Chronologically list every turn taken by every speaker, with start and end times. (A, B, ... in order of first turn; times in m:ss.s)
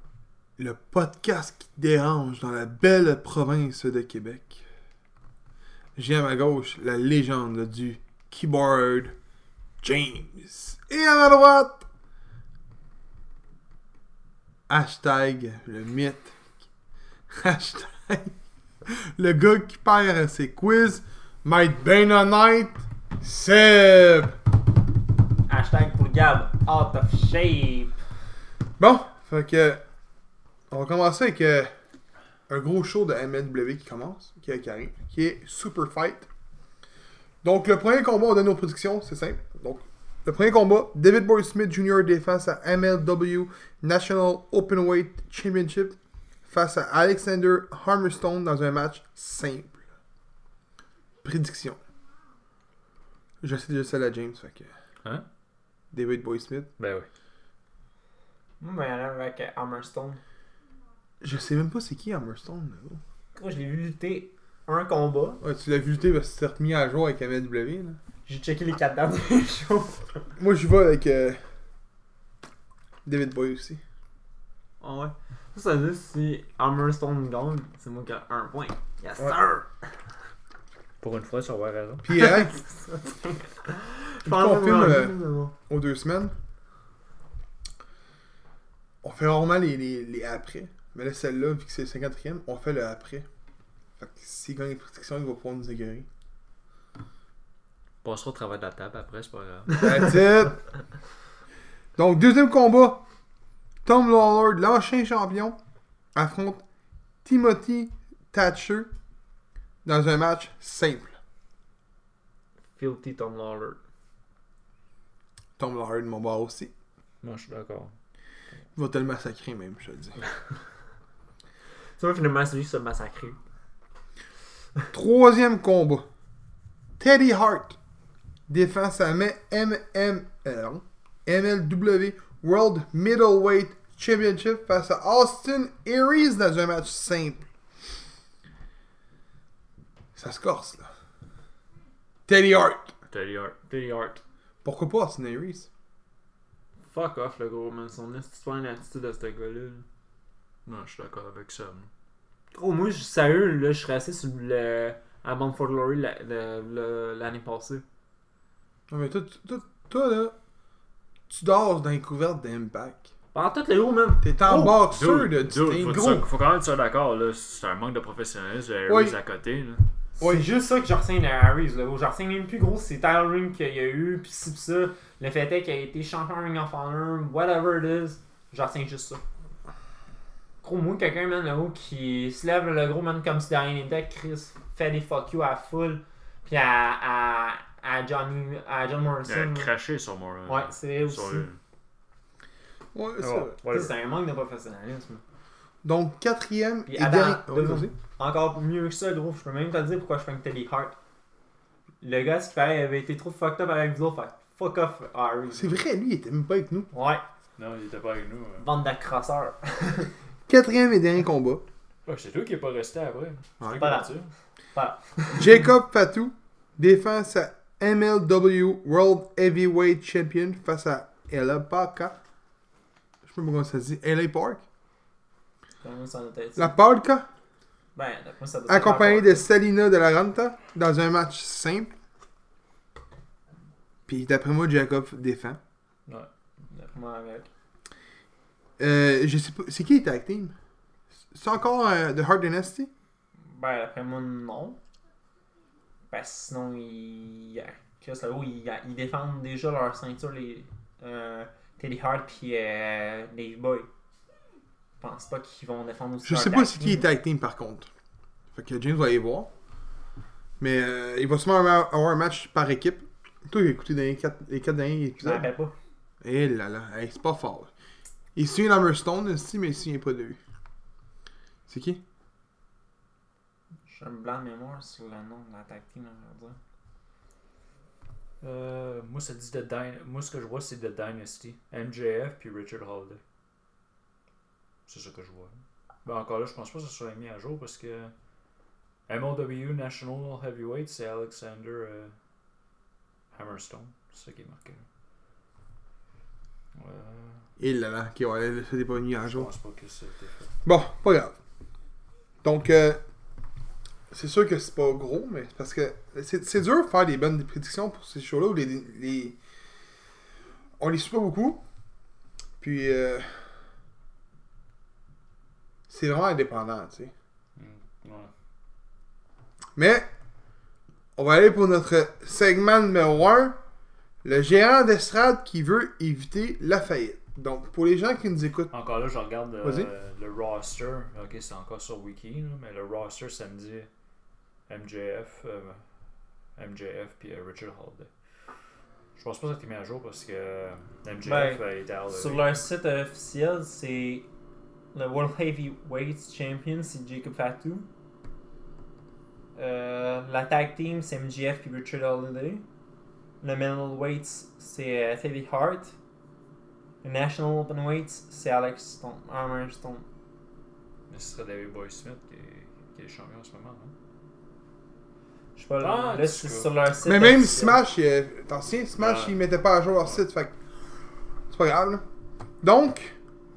0:00.6-0:04.6 A
0:06.0-0:09.1 A
0:09.8-0:11.8 A
0:14.7-0:16.3 A
0:17.3-0:18.3 A
0:18.9-0:24.4 A
0:25.5-0:28.0 B
0:28.8-0:29.8 A
0:30.7-0:31.7 A
0:32.5-0:36.3 A
0:37.4-0:46.0 A
0:46.5-0:49.8 A
0:51.2-0:51.8 A
0:53.4-0:54.7 A
0:55.9-0:56.7 A
0:56.8-0:57.1 C
0:58.6-1:00.2 B
1:01.2-1:03.0 A
1:03.3-1:05.4 B
1:05.4-1:08.0 A
1:08.2-1:10.2 B
1:10.4-1:11.4 A
1:13.0-1:13.8 A
1:14.8-1:19.7 B
1:21.0-1:22.1 C
1:22.0-1:22.6 A
1:22.2-1:25.5 B
1:24.2-1:26.3 A
1:29.0-1:33.2 A
1:34.0-1:36.1 A
1:38.0-1:40.1 C
1:39.7-1:40.6 A
1:42.0-1:43.0 A
1:43.8-1:45.6 A
1:46.1-1:46.6 A
1:47.2-1:48.9 A
1:49.8-1:51.1 A
1:52.8-1:53.8 B
1:55.6-1:56.7 A
1:57.2-1:57.9 C
1:58.7-2:00.2 A
2:02.0-2:03.4 B
2:04.9-2:06.0 A
2:07.0-2:07.8 A
2:08.5-2:17.4 A
2:20.1-2:20.9 A
2:22.3-2:22.9 A
2:23.1-2:23.7 C
2:23.7-2:24.2 B
2:24.6-2:25.7 A
2:26.9-2:29.8 B
2:30.6-2:31.9 C
2:32.5-2:37.8 B
2:38.9-2:40.3 A
2:41.3-2:43.0 A
2:43.3-2:44.8 B
2:44.2-2:46.3 A
2:44.7-2:49.8 C
2:48.9-2:49.2 A
2:50.2-2:59.2 B
2:50.2-2:50.4 A
3:00.6-3:09.7 B
3:09.2-3:11.6 C
3:10.5-3:11.5 B
3:12.9-3:13.9 A
3:13.2-3:13.9 C
3:13.7-3:15.2 B
3:15.8-3:17.9 A
3:16.9-3:21.0 B
3:22.0-3:25.8 B
3:25.5-3:26.9 A
3:26.9-3:27.2 B
3:27.6-3:28.6 C
3:28.6-3:30.1 B
3:30.5-3:31.7 A
3:32.0-3:34.3 C
3:33.8-3:34.1 B
3:34.7-3:35.6 B
3:35.3-3:42.2 A
3:43.2-3:44.6 A
3:45.8-3:46.7 B
3:46.6-3:47.3 A
3:48.0-3:49.4 B
3:48.7-3:51.9 A
3:54.1-3:55.6 A
3:56.7-3:57.5 B
3:58.8-4:00.5 A
4:01.3-4:02.9 A
4:03.5-4:04.8 B
4:06.1-4:13.9 B
4:15.0-4:17.0 B
4:16.2-4:17.9 A
4:18.5-4:19.5 A
4:20.6-4:25.5 A
4:25.2-4:25.7 B
4:26.2-4:27.7 A
4:28.3-4:30.4 A
4:31.7-4:32.0 A
4:33.9-4:36.6 B
4:38.4-4:43.2 C
4:44.9-4:48.1 C
4:49.1-4:52.1 C
4:53.3-4:54.8 C
4:56.7-4:57.5 C
4:57.6-4:59.5 A
4:59.2-5:00.5 C
5:00.6-5:01.3 A
5:02.4-5:03.0 A
5:04.1-5:09.4 A
5:10.8-5:11.6 A
5:12.6-5:13.4 A
5:15.9-5:17.1 A
5:17.6-5:18.3 C
5:19.8-5:20.1 A
5:21.2-5:23.6 A
5:24.2-5:28.7 A
5:28.7-5:33.9 C
5:29.6-5:29.9 A
5:34.7-5:35.8 C
5:36.6-5:38.1 C
5:39.2-5:42.6 C
5:41.2-5:44.3 B
5:44.9-5:47.9 B
5:49.6-5:52.6 B
5:53.4-5:55.9 B
5:57.0-6:00.0 B
6:01.1-6:03.9 C
6:05.6-6:07.8 B
6:05.8-6:06.7 C
6:07.0-6:10.5 A
6:09.0-6:09.3 C
6:11.5-6:12.0 A
6:12.6-6:13.1 A